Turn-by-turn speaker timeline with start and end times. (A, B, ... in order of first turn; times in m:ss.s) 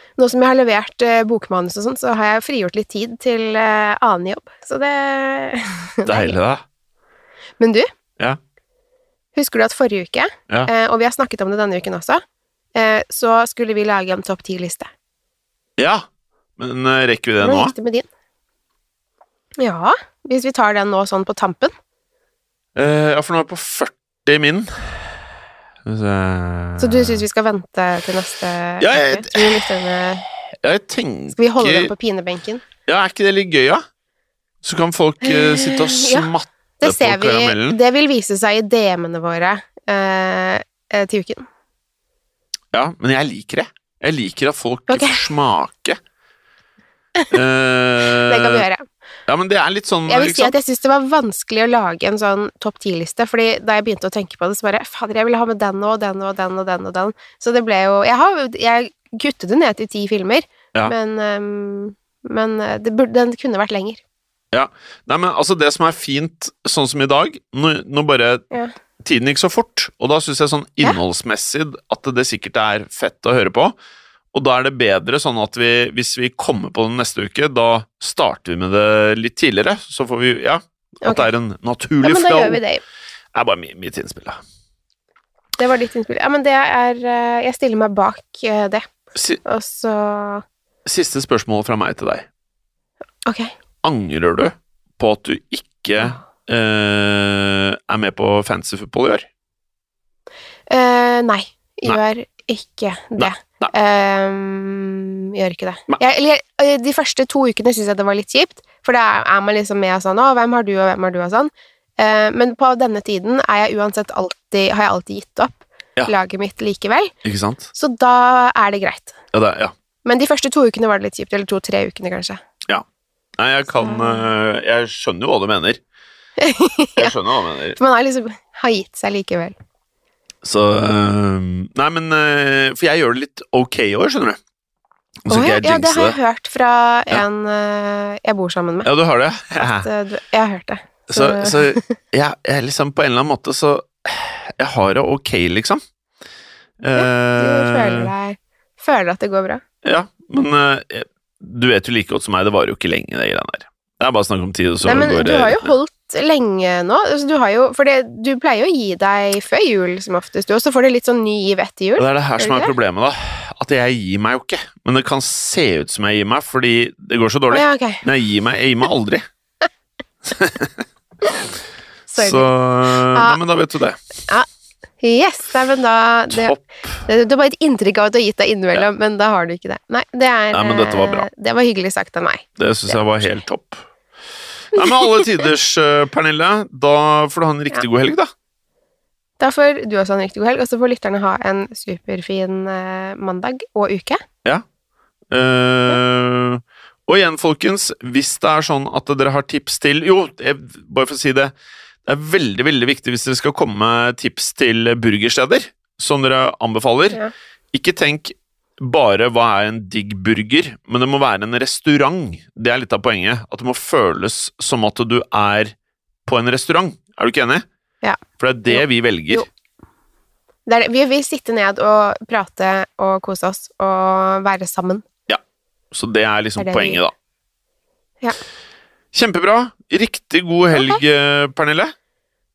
0:00.2-0:06.4 A
0:06.0-0:06.6 B
0:07.6-0:07.9 A
0:09.4-0:12.2 A
0:12.8-0:14.9 A
0:15.8-0:16.1 B
0:16.6-0:17.7 B
0:17.4-0:18.1 A
0:19.6-0:21.7 A
0:22.8-0:25.2 B
0:25.8-0:27.2 B
0:26.8-0:30.3 A
0:28.8-0:31.9 B
0:31.3-0:32.6 A
0:32.9-0:33.8 B
0:34.6-0:37.8 B
0:35.2-0:41.5 A
0:42.7-0:46.0 B
0:44.9-0:45.2 A
0:47.3-0:48.7 B
0:48.1-0:48.8 A
0:49.3-0:50.5 B
0:50.1-1:04.0 A
1:04.5-1:08.4 B
1:09.0-1:13.8 B
1:14.3-1:22.6 B
1:21.0-1:21.3 A
1:22.0-1:22.8 A
1:23.3-1:24.4 B
1:25.6-1:28.9 A
1:29.2-1:29.4 B
1:29.4-1:30.4 A
1:30.8-1:32.3 B
1:33.3-1:33.5 A
1:33.8-1:39.3 B
1:40.7-1:57.1 A
1:43.2-1:43.7 B
1:57.2-1:57.7 B
1:57.7-1:59.2 A
1:59.3-1:59.7 B
2:00.0-2:02.4 A
2:03.4-2:05.8 B
2:03.8-2:04.3 A
2:06.4-2:07.2 A
2:07.0-2:07.8 B
2:07.8-2:09.6 A
2:10.4-2:14.4 B
2:15.3-2:16.2 B
2:15.3-2:18.9 A
2:18.8-2:19.9 B
2:19.6-2:21.9 A
2:21.1-2:25.8 B
2:26.8-2:28.1 B
2:26.9-2:29.6 A
2:29.8-2:35.8 B
2:34.8-2:42.7 A
2:42.0-2:49.2 B
2:47.5-2:48.0 A
2:50.2-2:50.8 B
2:52.1-2:53.4 A
2:52.2-2:54.0 B
2:55.0-3:03.4 A
2:56.3-2:57.0 B
3:00.5-3:01.3 B
3:02.6-3:03.8 B
3:04.7-3:08.3 B
3:04.8-3:05.3 A
3:09.4-3:14.2 A
3:15.3-3:21.5 B
3:22.0-3:27.2 B
3:27.7-3:35.7 B
3:36.3-3:37.6 B
3:38.0-3:39.5 A
3:38.4-3:39.5 B
3:40.7-3:45.0 A
3:45.3-3:47.1 B
3:46.6-3:47.0 A
3:49.1-3:51.9 B